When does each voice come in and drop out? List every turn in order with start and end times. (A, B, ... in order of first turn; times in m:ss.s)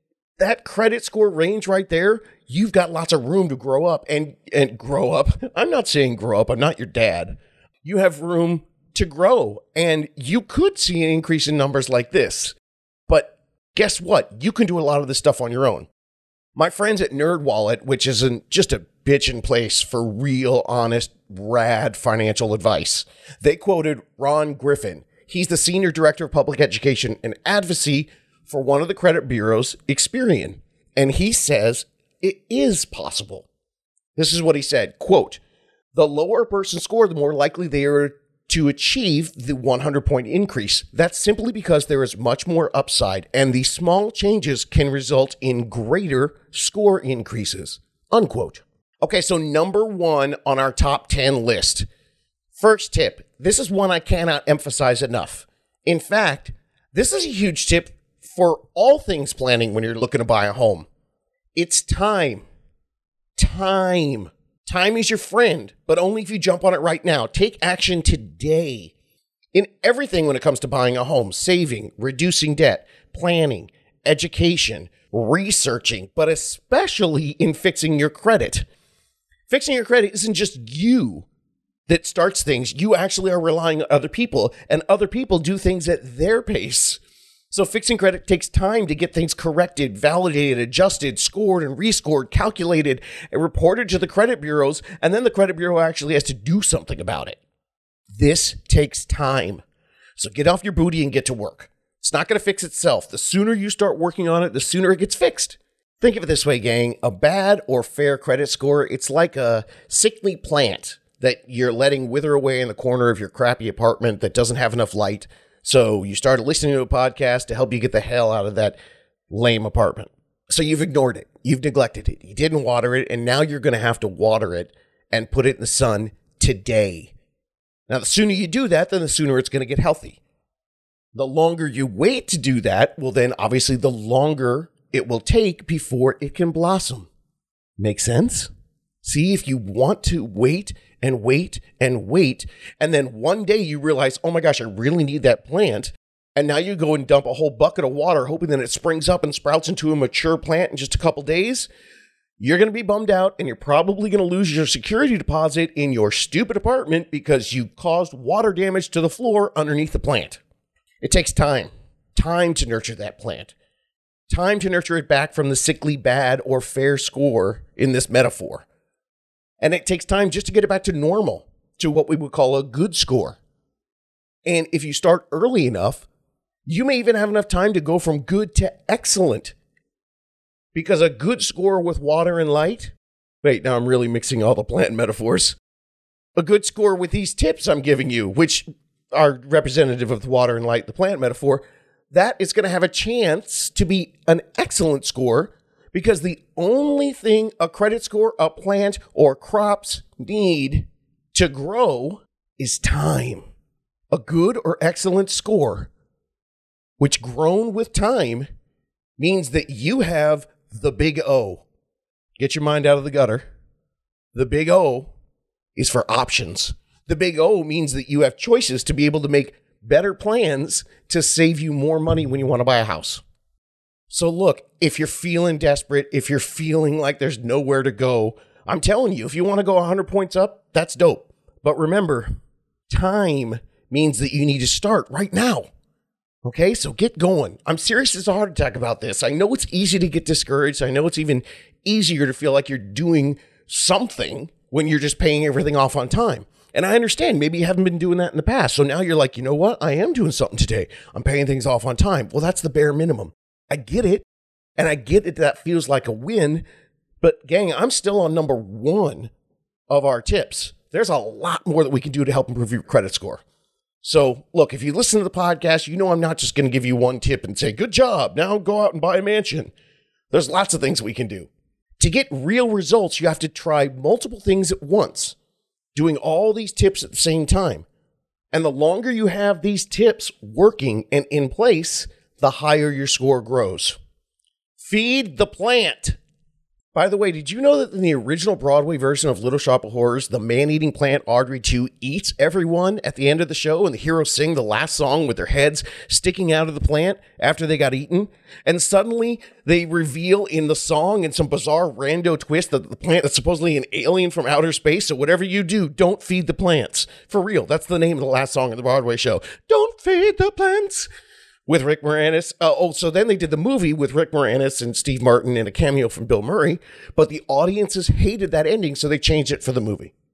0:00.4-0:12.6 A
0:13.1-0:15.9 A
0:16.6-0:33.5 A
0:34.2-0:35.4 A
0:36.0-0:51.9 A
0:52.6-1:00.9 A
1:01.6-1:02.5 A
1:03.4-1:08.9 A
1:09.5-1:18.6 A
1:19.5-1:21.3 A
1:21.9-1:37.4 A
1:38.1-1:39.6 A
1:40.2-1:58.8 A
1:59.3-2:07.1 A
2:07.9-2:10.2 A
2:11.2-2:17.1 A
2:17.8-2:18.5 A
2:19.0-2:31.7 A
2:32.4-2:40.4 A
2:41.0-2:43.5 A
2:44.3-2:48.7 A
2:49.6-2:53.4 A
2:54.5-2:56.1 A
2:56.7-2:59.6 A
3:00.7-3:05.6 A
3:06.4-3:23.5 A
3:24.1-3:25.9 A
3:27.0-3:28.5 A
3:29.2-3:31.6 A
3:32.4-3:33.4 A
3:34.3-3:35.1 A
3:35.8-3:43.2 A
3:44.1-3:52.3 A
3:52.9-3:55.7 A
3:56.4-4:14.2 A
4:14.8-4:16.6 A
4:17.2-4:19.3 A
4:19.9-4:23.4 A
4:24.0-4:29.7 A
4:30.3-4:35.4 A
4:36.0-4:37.9 A
4:38.5-4:44.0 A
4:44.8-4:46.2 A
4:46.9-5:11.1 A
5:11.7-5:20.1 A